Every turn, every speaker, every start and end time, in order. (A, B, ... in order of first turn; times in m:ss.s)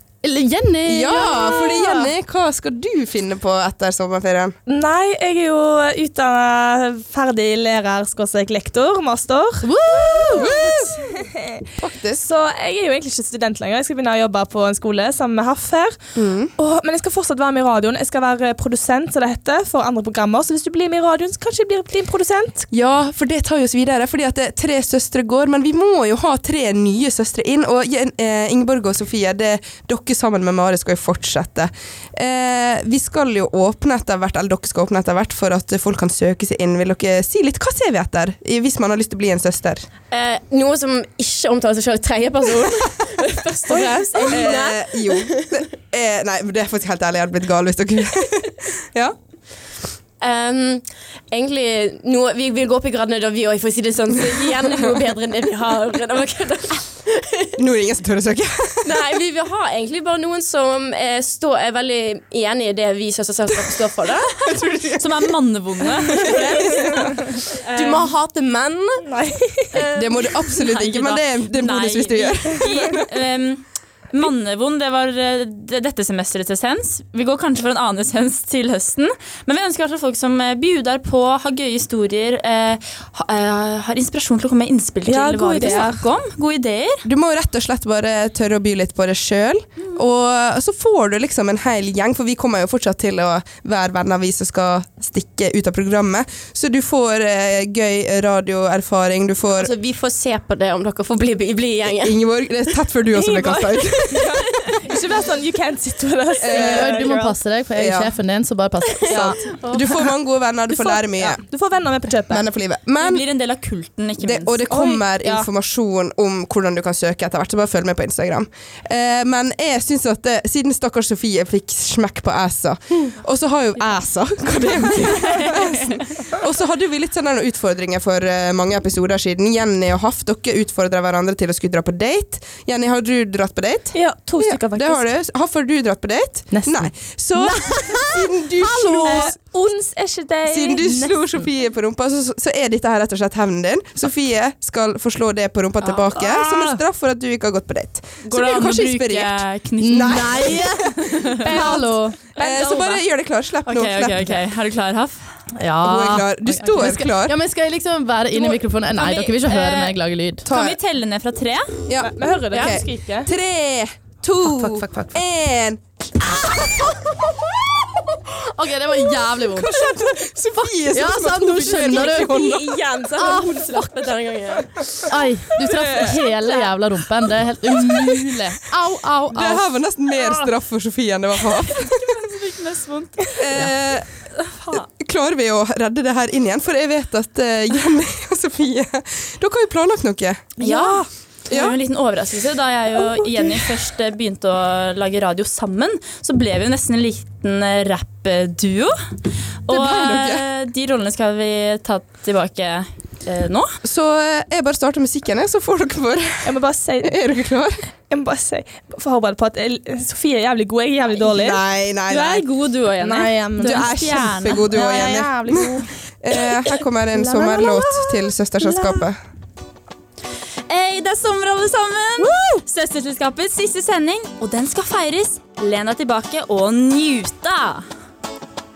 0:00.2-0:02.1 A
0:00.9-0:04.6 B
0:04.7-0:09.7 C
0:09.6-0:10.6 A
0:10.3-0:11.2 B
0:10.4-0:11.7 C
0:11.8-0:12.3 B
0:12.2-0:16.0 C
0:16.2-0:16.5 B
0:16.6-0:22.7 C
0:22.7-0:39.9 B
0:40.1-0:45.6 D
0:43.7-0:49.2 B
0:50.2-0:57.6 D
0:57.6-0:59.1 B
0:58.8-1:04.5 D
1:04.4-1:05.3 B
1:04.9-1:06.9 E
1:06.2-1:07.2 B
1:06.3-1:07.3 C
1:07.6-1:08.1 E
1:07.7-1:09.0 D
1:09.0-1:09.8 C
1:09.7-1:27.0 E
1:09.8-1:13.1 B
1:25.1-1:26.0 C
1:27.0-1:39.7 B
1:39.6-1:42.2 D
1:42.0-1:44.6 B
1:43.1-1:47.4 C
1:46.4-1:47.1 B
1:46.5-1:49.4 A
1:47.8-1:48.1 B
1:49.1-1:49.8 D
1:49.1-1:51.4 B
1:50.7-1:52.5 C
1:52.3-1:53.2 B
1:53.0-1:54.6 E
1:54.2-2:19.4 B
1:54.7-1:55.5 C
2:13.9-2:15.1 C
2:16.5-2:19.2 A
2:18.6-2:21.2 C
2:20.5-2:34.4 B
2:25.8-2:26.7 E
2:28.3-2:31.7 E
2:29.8-2:32.2 A
2:31.5-2:33.0 C
2:33.7-2:35.2 E
2:35.6-2:40.5 A
2:35.8-2:37.4 B
2:38.4-2:41.7 E
2:40.4-2:40.8 B
2:41.9-2:47.2 B
2:42.0-2:43.3 C
2:44.4-2:45.2 A
2:48.5-2:52.6 A
2:49.5-2:52.8 B
2:51.8-2:54.8 D
2:53.2-2:53.7 A
2:55.1-2:59.7 A
2:55.7-2:56.2 C
2:59.3-3:02.0 B
3:01.7-3:03.2 E
3:03.4-3:04.1 B
3:04.7-3:10.5 B
3:10.6-3:11.1 C
3:10.6-3:18.9 E
3:11.5-3:11.8 B
3:19.7-3:23.7 E
3:19.7-3:20.5 B
3:23.8-3:27.8 B
3:26.4-3:27.2 C
3:28.1-3:31.6 C
3:31.2-3:32.4 B
3:32.1-3:34.7 E
3:33.0-3:33.9 C
3:33.6-3:39.2 B
3:34.7-3:35.9 C
3:37.1-3:39.0 C
3:40.7-3:47.8 E
3:42.2-3:42.6 C